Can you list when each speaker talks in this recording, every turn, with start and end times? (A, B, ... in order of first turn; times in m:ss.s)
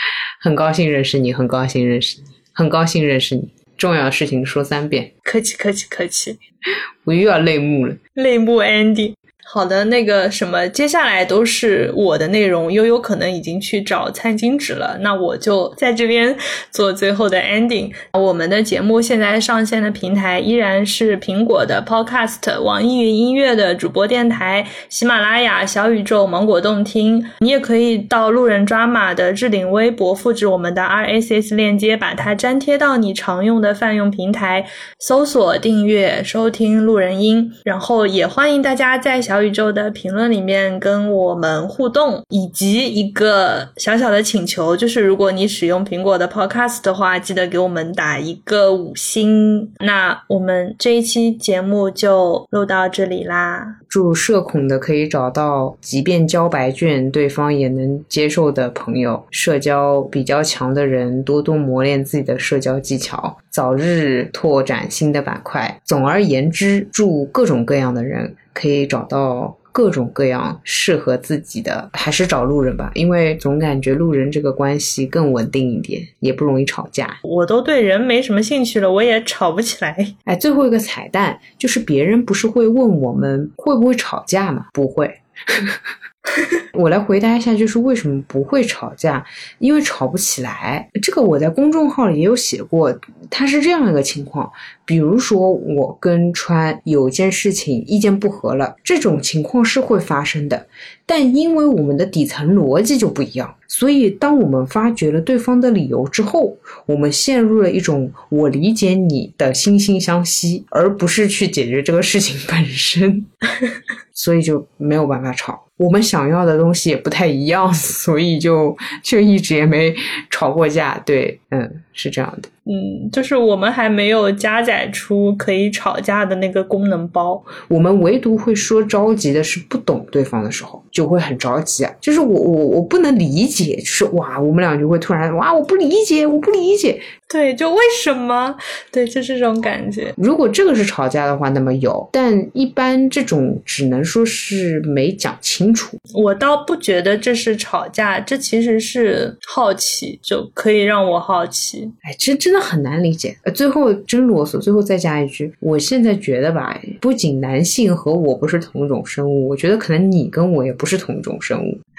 0:00.4-0:05.1 A
0:05.2-0:06.4 B
0:07.0-0:08.0 A
0:08.2-0:53.8 B
0:53.9-1:17.2 A
1:17.2-1:20.1 B
1:20.2-1:25.8 A
1:26.7-1:53.3 A
1:54.2-2:02.5 A
2:02.6-2:07.5 B
2:07.6-2:17.0 A
2:17.3-2:20.2 B
2:20.2-2:26.0 A
2:26.1-2:31.9 B
2:32.0-2:41.8 A